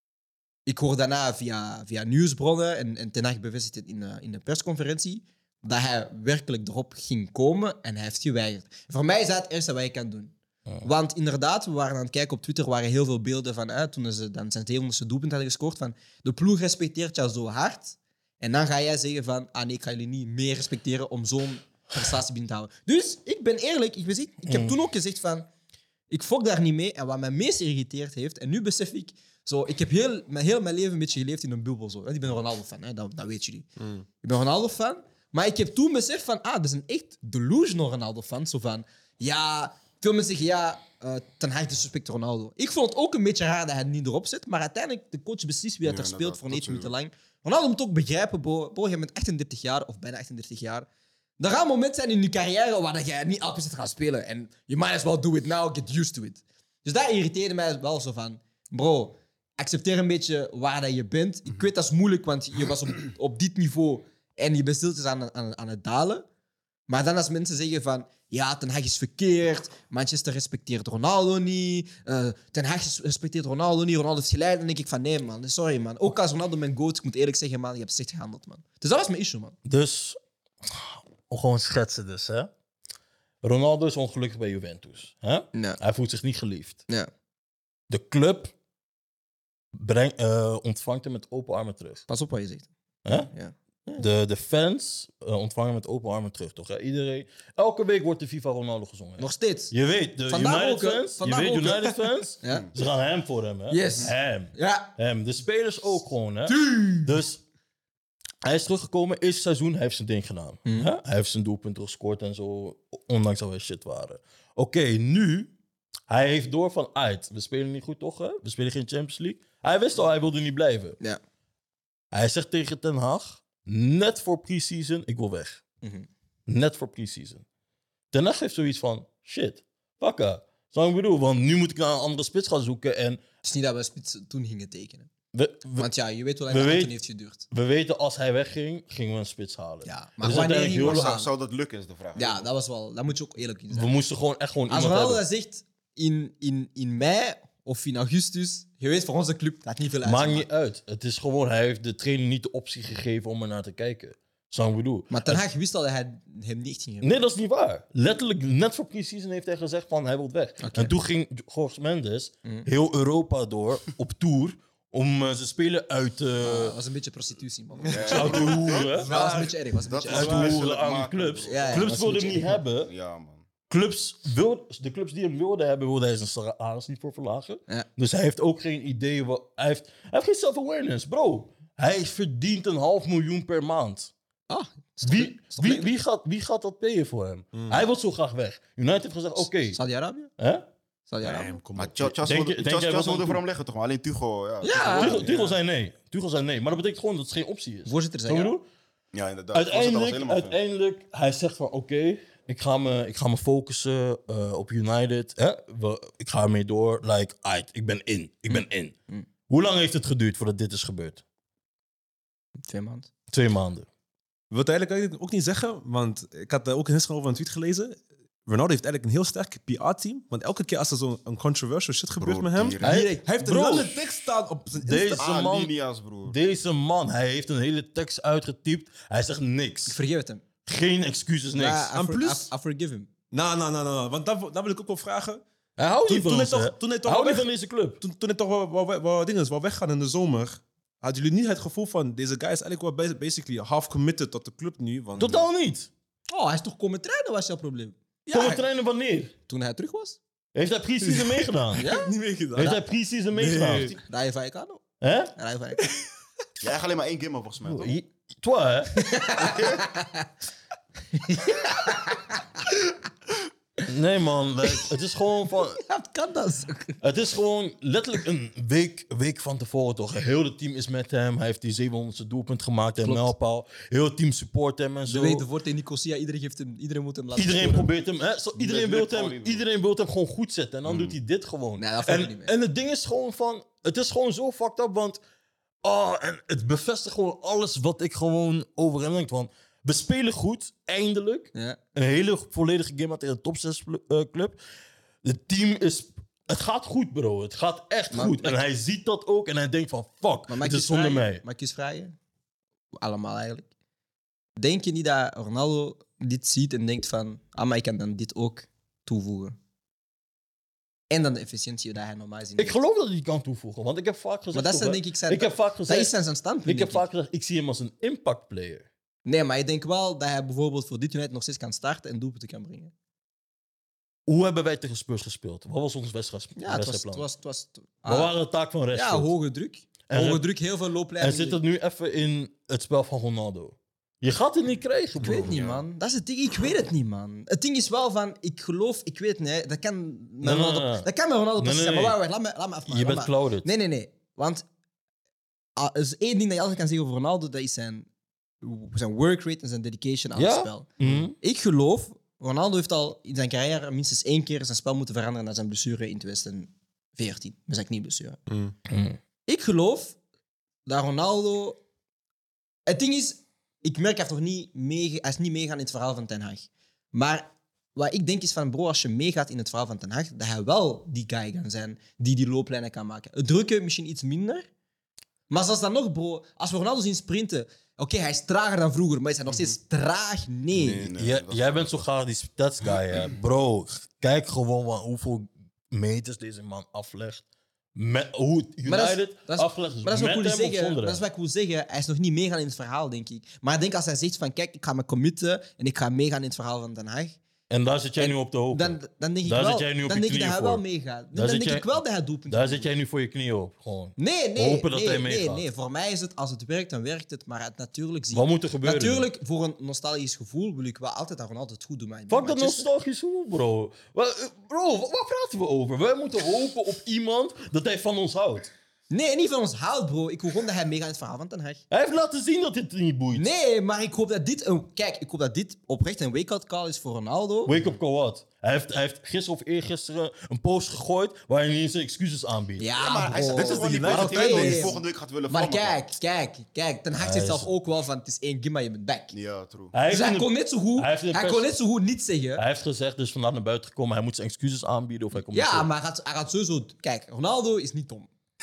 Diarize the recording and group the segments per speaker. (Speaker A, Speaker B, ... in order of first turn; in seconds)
Speaker A: 0.7-25.5, 26.1-33.7, 34.2-50.9, 51.4-66.2, 66.9-79.6, 85.5-85.8, 92.1-92.7, 93.3-94.0, 99.2-99.7, 100.3-102.7, 103.7-104.9, 106.5-107.1, 110.7-110.9, 125.8-126.1, 133.4-135.1, 135.8-137.5, 139.8-141.3, 142.2-143.9, 144.7-150.5, 155.1-157.2, 160.6-160.9, 166.4-170.6, 171.5-172.6, 184.5-185.9, 189.7-190.3, 191.1-191.6, 194.6-195.6, 197.9-198.5, 208.5-209.3, 212.7-213.1, 222.8-223.2, 229.9-230.4, 231.6-233.1, 246.3-248.6, 249.5-250.2, 251.8-252.1, 254.1-254.8, 255.3-255.9, 259.0-260.3, 261.1-262.4, 265.8-267.0, 273.0-273.3, 275.1-277.9, 281.8-282.5, 298.2-298.6, 300.5-302.2, 302.9-303.7, 304.6-309.6, 311.1-312.8, 314.5-317.0, 319.3-322.9, 326.6-328.4, 328.9-331.6, 335.2-344.6, 345.8-348.1, 348.6-350.9, 351.4-358.4, 359.5-360.2, 360.9-361.8, 362.9-374.6, 375.5-381.1, 388.9-397.4, 398.2-402.9, 404.2-412.9, 419.1-421.8, 423.4-427.8, 432.8-439.4, 440.1-442.6, 445.5-448.3
Speaker B: 24.5-24.8, 79.7-82.5, 83.4-86.8, 87.9-88.5, 89.8-92.0, 93.0-93.3, 94.0-107.4, 108.4-115.5, 116.1-121.0, 122.1-125.6, 126.5-127.4, 128.1-133.2, 135.3-135.9, 136.5-136.9, 137.5-141.2, 143.7-145.2, 150.0-155.4, 157.0-166.8, 168.1-169.1, 170.1-172.9, 173.7-184.1, 185.0-189.8, 190.4-190.7, 192.2-193.4, 194.8-198.7, 199.5-209.0, 209.5-211.2, 213.3-213.9, 222.8-224.0, 224.8-225.7, 226.2-230.0, 230.7-232.5, 235.8-238.0, 245.2-245.9, 248.3-249.3, 250.6-251.9, 252.6-254.0, 255.0-255.3, 257.7-259.1, 263.9-265.8, 267.0-275.4, 277.3-285.2, 285.8-294.6, 295.2-301.4, 312.6-316.1, 316.6-318.9, 324.3-327.3, 328.1-329.3, 330.1-330.4, 331.2-335.6, 340.4-342.2, 342.9-343.7, 350.4-351.4, 358.9-359.2, 381.2-387.4, 387.9-391.2, 397.7-405.6, 408.3-409.3, 412.3-418.7, 421.9-423.5, 427.7-432.9, 437.2-437.7, 439.9-441.7, 442.6-445.9
Speaker C: 45.8-46.9, 140.3-142.5, 167.9-169.0, 169.8-173.4, 191.8-195.4, 199.1-200.6, 222.2-222.9, 225.2-226.4, 256.6-257.9, 259.4-259.9, 278.5-279.6, 280.9-281.2, 298.1-298.6, 335.4-335.8, 380.7-382.1, 433.0-436.0, 439.3-439.9
Speaker D: 167.9-169.5, 187.5-187.8, 191.2-192.2, 214.5-225.3, 233.3-235.4, 236.1-237.5, 238.0-245.5, 251.0-254.0, 351.0-351.3, 358.5-358.7, 433.5-434.9